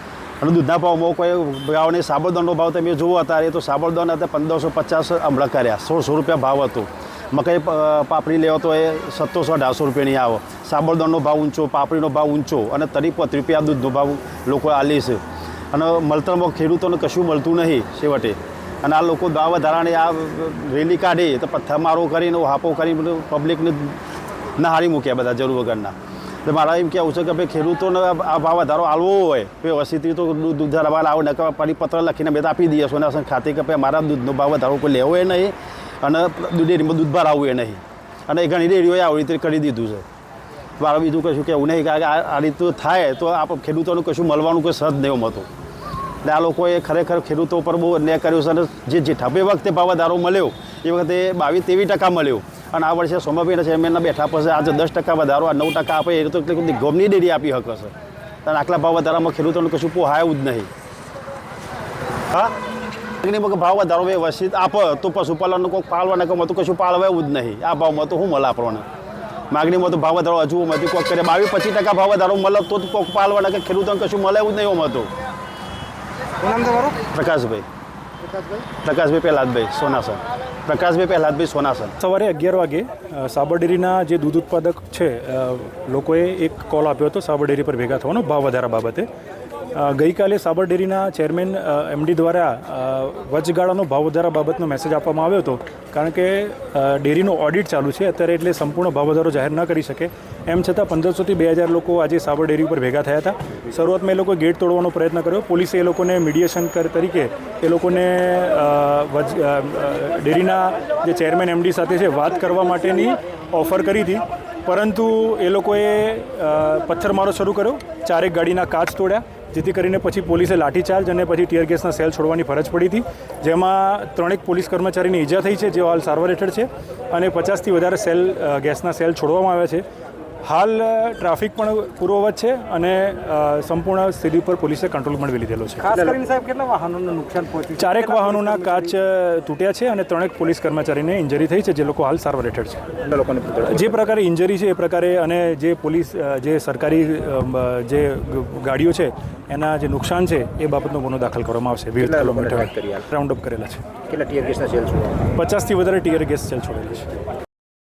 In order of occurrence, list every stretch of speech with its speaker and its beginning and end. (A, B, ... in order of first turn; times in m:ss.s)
0:00.4-0:15.2 A
0:15.7-0:24.0 A
0:24.6-0:25.9 A
0:26.4-0:40.0 A
0:40.8-0:45.5 A
0:46.2-0:57.9 A
0:58.4-1:00.7 A
1:03.2-1:08.8 A
1:09.5-1:15.1 A
1:16.4-1:17.0 B
1:17.1-1:17.6 A
1:18.8-1:21.9 A
1:22.0-1:29.1 C
1:29.8-2:09.8 C
2:10.4-2:15.9 C
2:15.9-2:17.8 B
2:17.8-2:22.9 C
2:23.2-2:23.6 B
2:23.6-2:33.9 C
2:32.1-2:33.0 B
2:34.1-2:35.2 B
2:35.4-2:37.1 C